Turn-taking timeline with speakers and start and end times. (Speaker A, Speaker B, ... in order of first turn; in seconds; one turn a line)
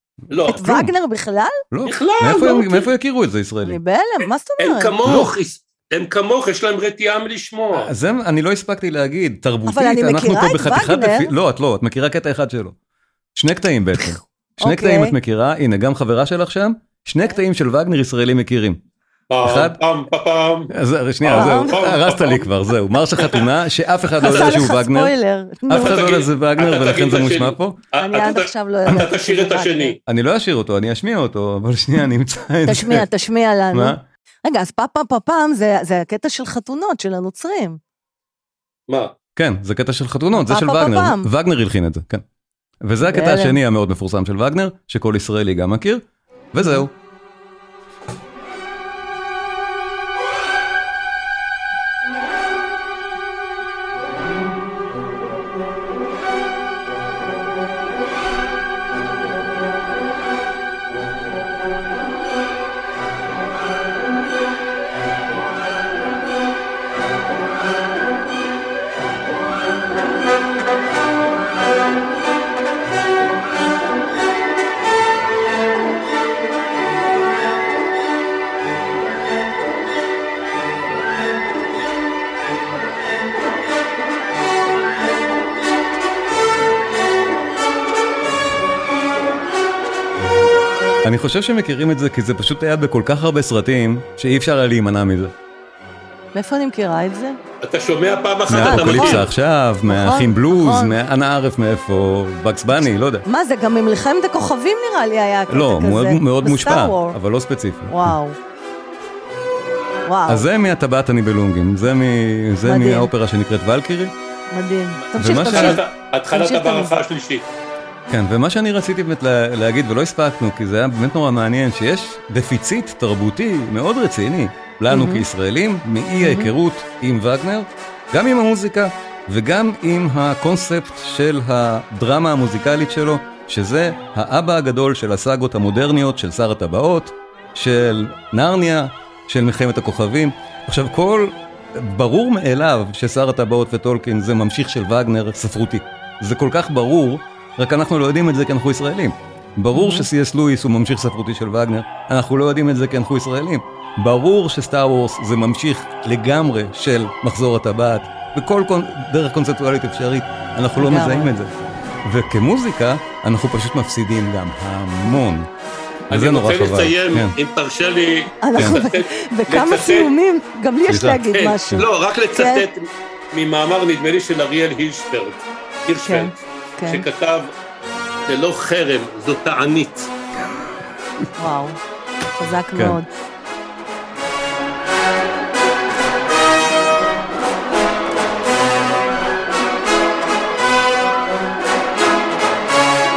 Speaker A: 0.3-0.6
Speaker B: 0.4-0.9
Speaker C: 0.5-1.6
Speaker B: 1.7-3.8
Speaker A: 1.8-2.9
Speaker C: 3.6-5.0
Speaker A: 4.6-7.9
Speaker B: 5.0-5.3
Speaker B: 7.7-12.8
Speaker C: 9.7-11.3
Speaker B: 13.3-18.8
Speaker C: 14.6-15.1
Speaker A: 19.3-20.7
Speaker B: 19.4-19.8
Speaker B: 20.7-25.1
Speaker A: 21.2-22.5
Speaker C: 21.3-21.8
Speaker A: 23.2-23.5
Speaker C: 24.2-26.0
Speaker B: 25.7-27.8
Speaker A: 25.7-30.0
Speaker C: 27.9-29.9
Speaker B: 30.1-33.0
Speaker C: 32.6-37.8
Speaker B: 33.7-34.0
Speaker A: 38.9-39.1
Speaker B: 39.4-42.2
Speaker C: 40.3-41.3
Speaker B: 42.8-46.9
Speaker C: 43.1-43.6
Speaker C: 46.6-46.8
Speaker B: 91.0-95.3
Speaker C: 96.3-97.4
Speaker A: 97.6-99.3
Speaker B: 98.5-103.2
Speaker C: 98.5-99.2
Speaker C: 99.9-100.9
Speaker C: 103.2-107.2
Speaker B: 105.5-108.1
Speaker C: 107.9-108.4
Speaker C: 110.0-110.4
Speaker B: 110.3-114.1
Speaker C: 112.6-113.1
Speaker C: 114.5-117.0
Speaker B: 115.2-115.8
Speaker A: 115.2-117.5
Speaker B: 118.1-161.5
Speaker C: 124.9-125.2
Speaker C: 126.2-126.5
Speaker C: 149.7-150.1
Speaker C: 160.8-161.3
Speaker B: 162.0-165.5
Speaker B: 166.1-167.3
Speaker A: 166.1-170.1
Speaker C: 168.4-172.7
Speaker B: 170.9-171.8
Speaker A: 171.3-177.5
Speaker C: 176.0-177.0
Speaker A: 178.3-180.1
Speaker C: 181.4-181.8
Speaker C: 182.3-183.1